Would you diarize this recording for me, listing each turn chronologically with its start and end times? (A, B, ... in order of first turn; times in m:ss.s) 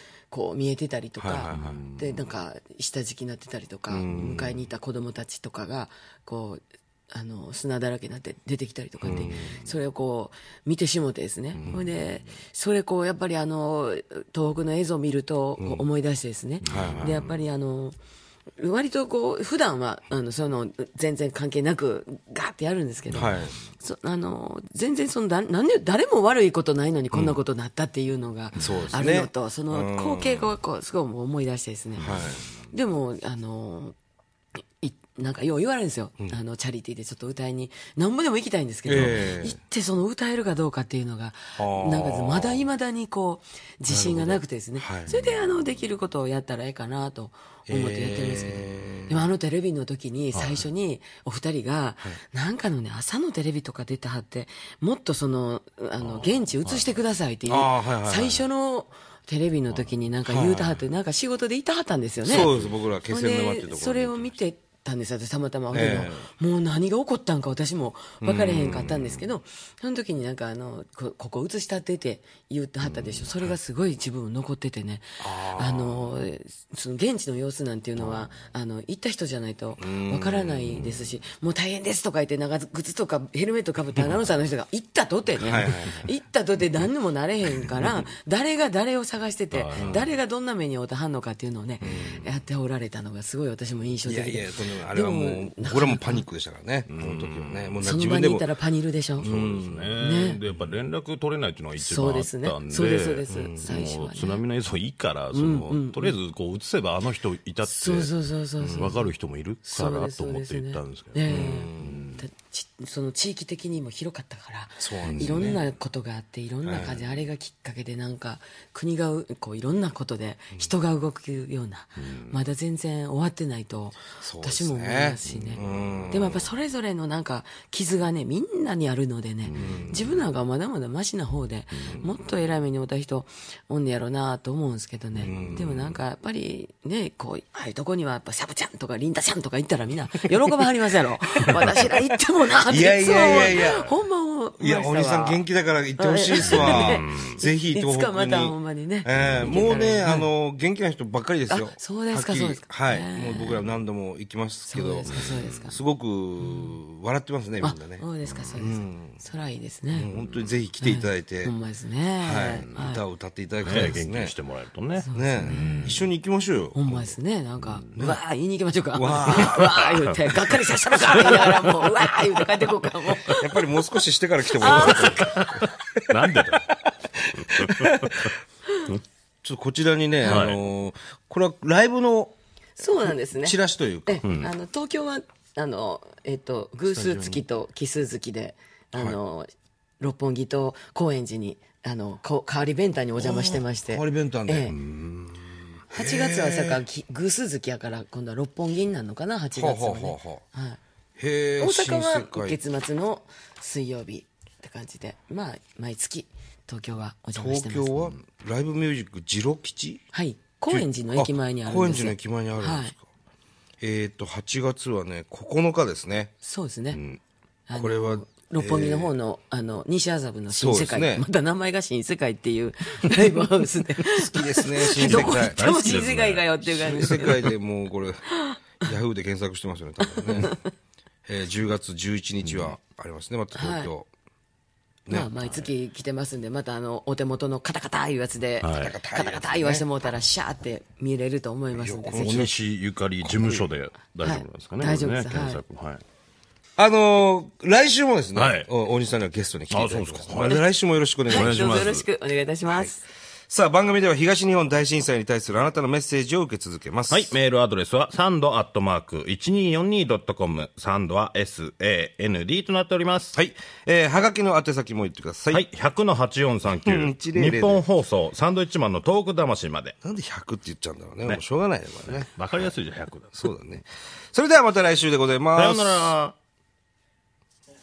0:00.3-0:18.0 A
0:01.2-0:01.8 B
0:01.5-0:02.2 C
0:04.0-0:04.6 B
0:09.0-0:09.6 B
0:11.6-0:12.3 C
0:15.6-0:15.8 B
0:16.6-0:17.4 C
0:16.7-0:17.2 B
0:18.6-0:32.1 A
0:23.1-0:23.5 B
0:27.1-0:27.4 B
0:28.6-0:30.6 B
0:28.6-0:28.9 C
0:32.0-0:32.6 C
0:32.0-0:32.4 B
0:32.7-0:34.0 A
0:34.8-1:02.5 A
0:38.9-0:39.6 B
0:41.6-0:42.7 B
0:43.9-0:45.3 B
0:47.7-0:49.3 B
0:50.3-0:50.6 C
0:56.0-0:56.9 C
0:57.5-0:58.4 B
1:00.3-1:00.8 B
1:02.2-1:04.4 B
1:02.4-1:02.7 C
1:03.1-1:36.3 A
1:05.7-1:06.3 B
1:08.2-1:09.2 B
1:12.8-1:13.3 B
1:15.2-1:16.3 B
1:19.8-1:21.1 B
1:25.4-1:26.1 B
1:29.5-1:30.1 C
1:31.8-1:32.2 B
1:31.9-1:32.2 C
1:34.0-1:38.5 B
1:36.9-1:37.9 C
1:37.8-1:39.3 A
1:39.2-1:40.0 B
1:39.2-1:48.1 C
1:40.0-1:40.4 A
1:41.8-1:44.4 A
1:43.3-1:43.7 B
1:45.3-1:46.2 A
1:47.7-1:49.1 A
1:48.6-1:48.9 B
1:48.7-1:52.2 C
1:49.6-2:30.3 A
1:51.3-1:52.1 B
1:54.8-1:55.6 B
1:56.6-1:57.2 B
2:02.0-2:02.4 C
2:04.2-2:06.5 B
2:09.4-2:10.2 C
2:09.6-2:10.1 B
2:11.8-2:12.1 C
2:15.2-2:15.7 B
2:15.3-2:16.0 C
2:22.7-2:23.9 B
2:23.3-2:23.8 C
2:24.6-2:39.2 B
2:26.4-2:27.4 C
2:29.2-2:29.7 C
2:31.5-2:33.7 A
2:34.7-2:35.8 A
2:35.1-2:35.6 C
2:36.4-2:36.8 A
2:37.6-2:40.1 A
2:39.9-2:41.5 B
2:40.8-2:43.0 A
2:42.2-2:44.4 B
2:43.6-2:46.0 C
2:45.0-2:46.0 A
2:45.1-2:46.9 B
2:46.8-2:53.7 A
2:48.9-2:49.8 B
2:49.2-2:50.2 C
2:51.3-2:52.3 C
2:53.3-2:55.7 B
2:54.5-2:55.6 A
2:54.6-2:56.7 C
2:57.3-2:58.3 C
2:57.6-2:58.2 B
2:59.4-3:02.4 B
3:00.2-3:00.6 C
3:02.8-3:14.8 A
3:03.1-3:04.3 B
3:04.2-3:04.5 C
3:06.9-3:07.4 C
3:13.2-3:16.8 B
3:15.9-3:20.8 A
3:19.5-3:20.4 B
3:21.2-3:22.6 B
3:21.6-3:28.1 A
3:27.4-3:30.0 B
3:30.1-3:32.9 A
3:30.7-3:33.1 B
3:33.8-3:36.3 B
3:36.4-3:37.0 A
3:36.9-3:37.2 C
3:37.7-3:47.6 A
3:37.7-3:39.1 B
3:40.5-3:41.3 B
3:44.1-3:45.7 B
3:45.0-3:47.1 C
3:46.7-3:48.3 B
3:48.3-3:48.6 A
3:48.8-3:50.5 B
3:50.1-3:50.7 A
3:51.3-3:54.1 B
3:52.5-3:52.8 C
3:53.6-3:53.9 A
3:55.1-4:02.5 A
3:58.6-3:59.0 C
3:58.7-3:59.9 B
4:01.7-4:02.6 B
4:02.2-4:06.0 C
4:03.2-4:03.7 B
4:04.2-4:05.6 A
4:06.8-4:11.8 B
4:08.4-4:08.7 C
4:09.7-4:10.6 C
4:11.3-4:13.1 A
4:11.3-4:12.1 C
4:12.7-4:12.9 B
4:13.5-4:17.3 B
4:17.1-4:23.4 C
4:23.3-4:25.6 B
4:25.5-4:30.0 C
4:26.8-4:27.8 B
4:30.0-4:32.3 B
4:32.1-4:33.4 C
4:33.3-4:36.1 B
4:35.6-4:36.4 C